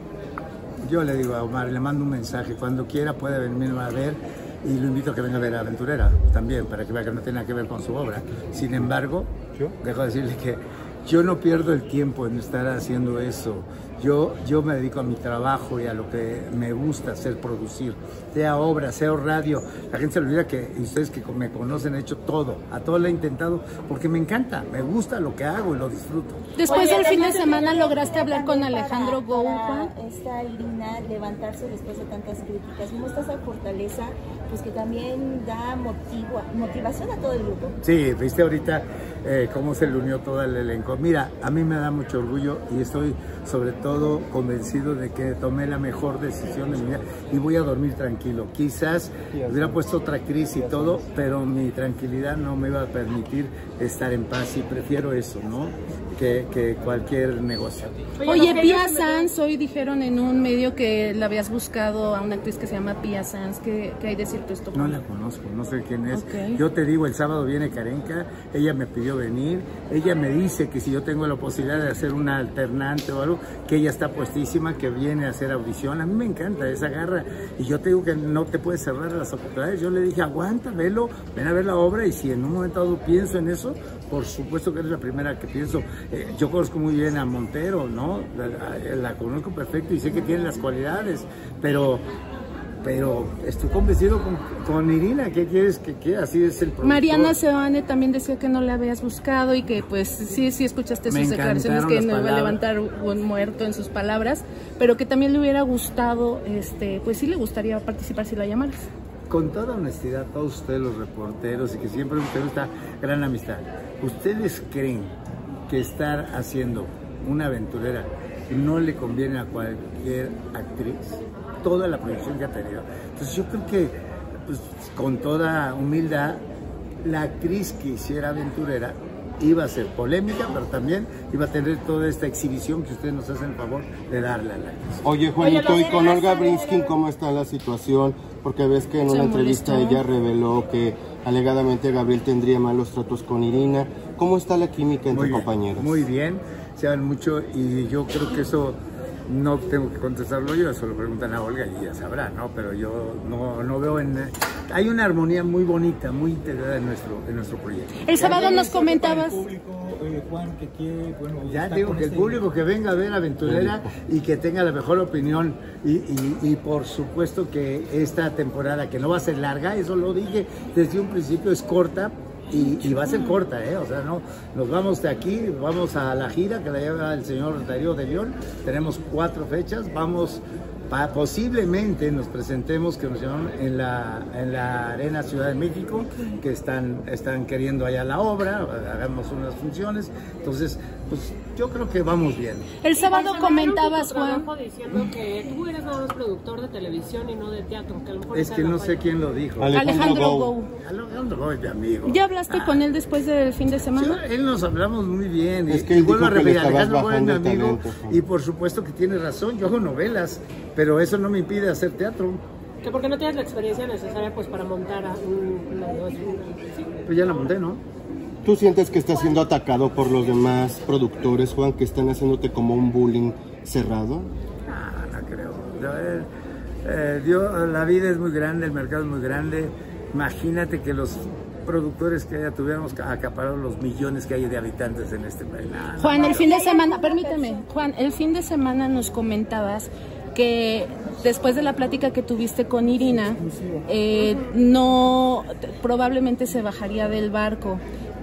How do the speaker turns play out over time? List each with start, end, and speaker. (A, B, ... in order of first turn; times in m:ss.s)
0:00.8-0:26.5 A
0:26.6-0:29.9 B
0:26.6-0:28.1 C
0:26.6-0:37.8 D
0:37.8-0:57.9 A
0:58.2-0:59.3 C
0:58.2-1:05.0 B
1:04.7-1:32.0 A
1:06.1-1:06.6 B
1:32.8-1:37.4 A
1:36.8-1:48.9 B
1:41.1-1:42.6 A
1:49.3-1:55.1 A
1:55.7-2:06.4 A
2:07.0-2:15.1 A
2:15.0-2:26.0 E
2:15.5-2:16.9 D
2:19.1-2:20.0 B
2:25.1-2:38.5 A
2:38.0-2:39.4 B
2:38.3-2:42.4 F
2:41.4-3:12.7 A
2:43.4-2:43.9 E
2:52.6-2:53.4 B
3:12.8-3:14.5 B
3:12.9-3:19.0 C
3:18.3-3:19.8 A
3:19.6-3:20.5 E
3:19.7-3:20.7 B
3:20.8-3:22.8 A
3:22.0-3:24.2 B
3:23.9-3:32.4 A
3:25.7-3:28.2 E
3:32.8-3:36.9 C
3:37.0-3:37.8 A
3:38.4-3:44.3 E
3:44.7-3:46.3 A
3:46.8-3:56.5 A
3:56.0-4:07.8 B
3:56.1-3:57.6 D
4:04.1-4:04.5 C